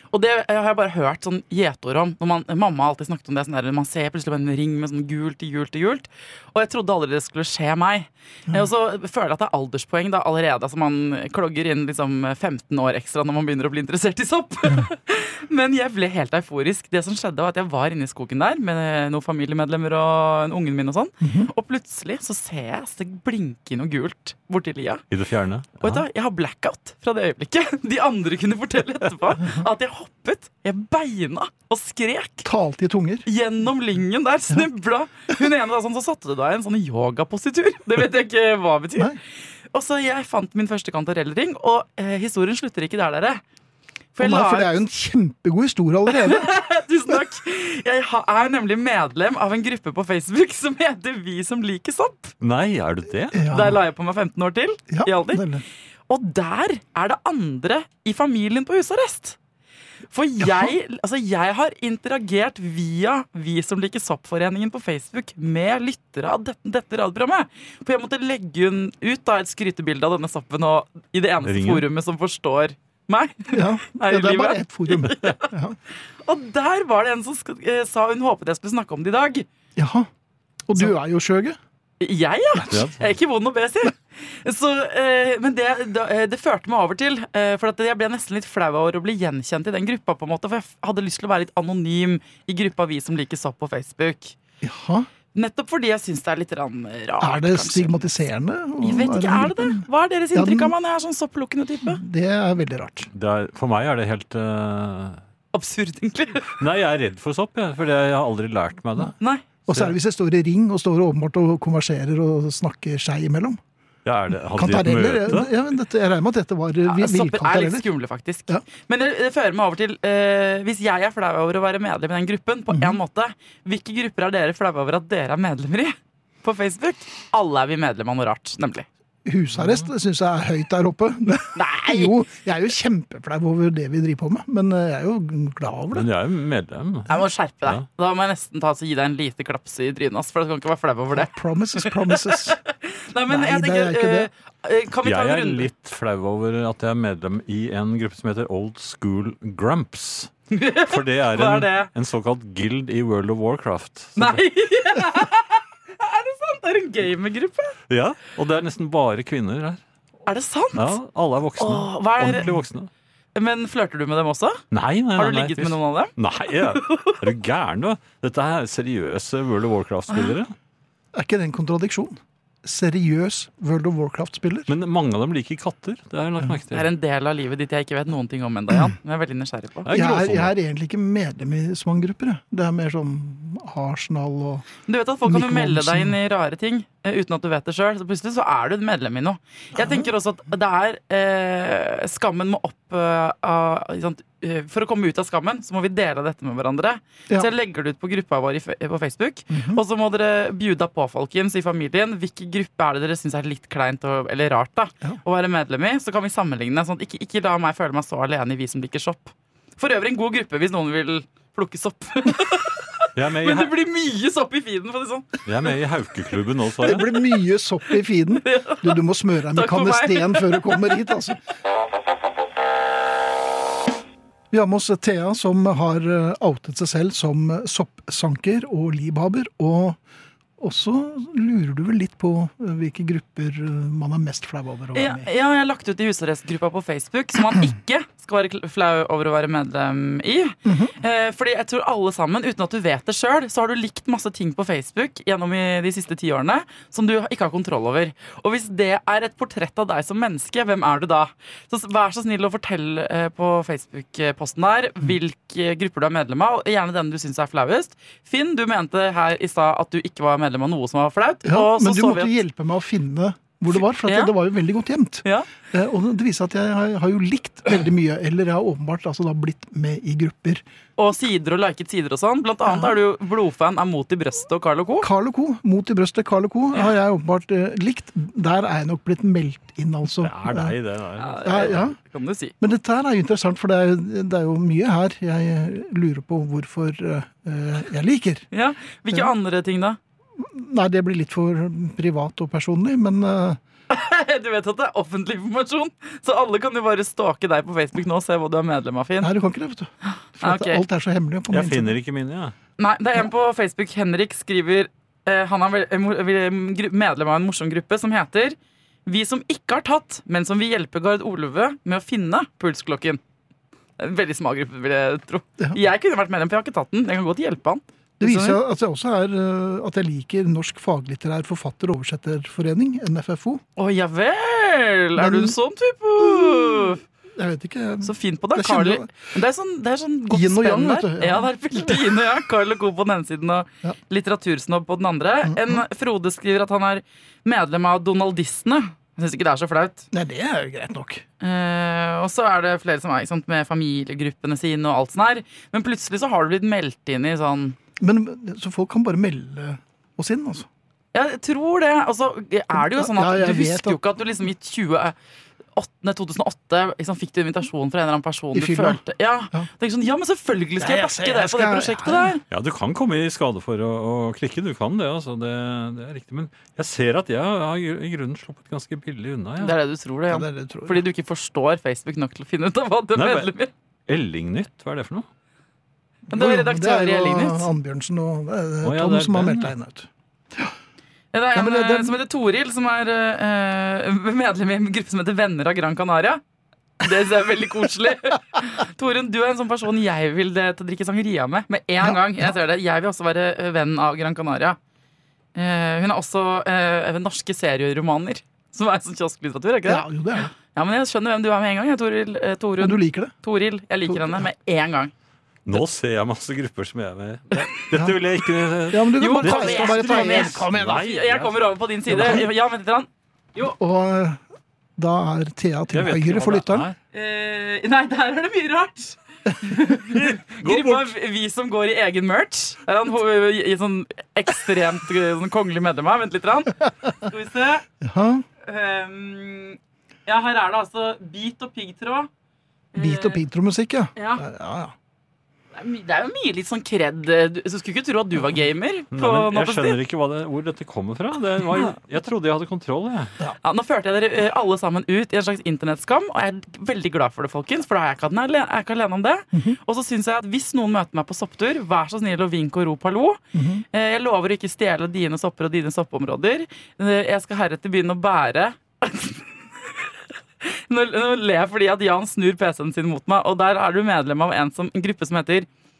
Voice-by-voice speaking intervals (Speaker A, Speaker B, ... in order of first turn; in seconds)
Speaker A: 0.1-25.0, 25.8-32.5, 33.2-39.2, 39.7-43.4, 44.1-44.8, 46.1-52.3, 53.5-55.4, 56.1-59.4, 60.1-75.5, 76.2-79.5, 82.0-94.3, 95.3-98.1, 98.8-102.0, 105.5-106.6, 109.2-109.4, 116.8-128.9, 131.5-132.1, 137.1-145.7, 150.5-151.9, 154.2-157.8, 160.2-161.0, 161.6-162.5, 163.3-164.6, 165.2-167.2, 176.7-179.9, 184.8-215.4, 218.4-219.0, 219.5-221.1, 234.9-262.3, 264.0-264.3, 265.2-265.5, 271.0-275.1, 281.2-282.5, 288.5-290.0, 293.9-299.3, 300.0-300.8, 302.8-313.2, 314.0-318.6, 323.8-327.0, 328.0-340.1, 341.4-347.8, 351.1-355.1, 355.7-362.4, 369.6-373.7, 376.3-377.7, 381.3-386.4, 387.0-394.8, 395.5-400.1, 400.6-405.1, 409.2-413.7, 417.1-427.9, 428.6-432.3, 432.9-433.4, 434.1-434.4, 435.7-440.0, 443.6-453.4, 453.9-460.1, 460.6-465.7
Speaker B: 21.2-21.5, 32.4-33.2, 44.2-46.5, 53.3-53.8, 54.9-55.6, 60.4-60.7, 73.5-75.8, 79.8-80.1, 80.7-81.6, 94.6-95.1, 97.2-100.7, 101.8-103.1, 109.7-113.6, 114.5-117.9, 122.7-123.0, 129.2-136.1, 141.1-142.6, 143.3-144.3, 171.1-174.7, 179.9-184.7, 185.2-186.2, 189.8-190.1, 199.5-199.8, 216.8-221.4, 224.5-230.0, 230.6-235.3, 240.6-240.9, 261.4-270.6, 272.6-272.9, 275.0-280.7, 281.4-282.0, 282.6-288.4, 290.4-293.6, 299.2-301.9, 318.2-323.6, 325.2-325.6, 326.2-329.1, 330.3-332.2, 335.4-335.8, 340.1-341.2, 348.0-350.7, 352.8-354.0, 358.5-359.0, 360.8-362.3, 370.3-371.0, 376.3-380.7, 381.5-382.2, 399.9-400.5, 402.8-403.3, 404.0-404.5, 408.9-411.0, 412.1-412.4, 413.7-414.4, 415.0-416.9, 428.0-428.4, 432.9-434.9, 453.5-453.8
Speaker C: 25.1-26.0, 52.4-53.4, 71.4-71.8, 82.7-83.0, 103.1-105.2, 106.6-109.2, 109.7-109.9, 114.0-115.5, 135.9-137.8, 145.0-150.3, 150.8-154.4, 157.9-159.8, 160.7-162.9, 164.7-170.5, 174.7-176.9, 179.8-180.5, 213.1-213.7, 215.4-217.1, 280.2-281.8, 301.5-302.5, 362.5-369.8, 373.1-373.5, 374.1-375.3, 378.8-379.7, 405.6-411.5, 415.9-417.0, 420.1-421.1, 439.1-443.3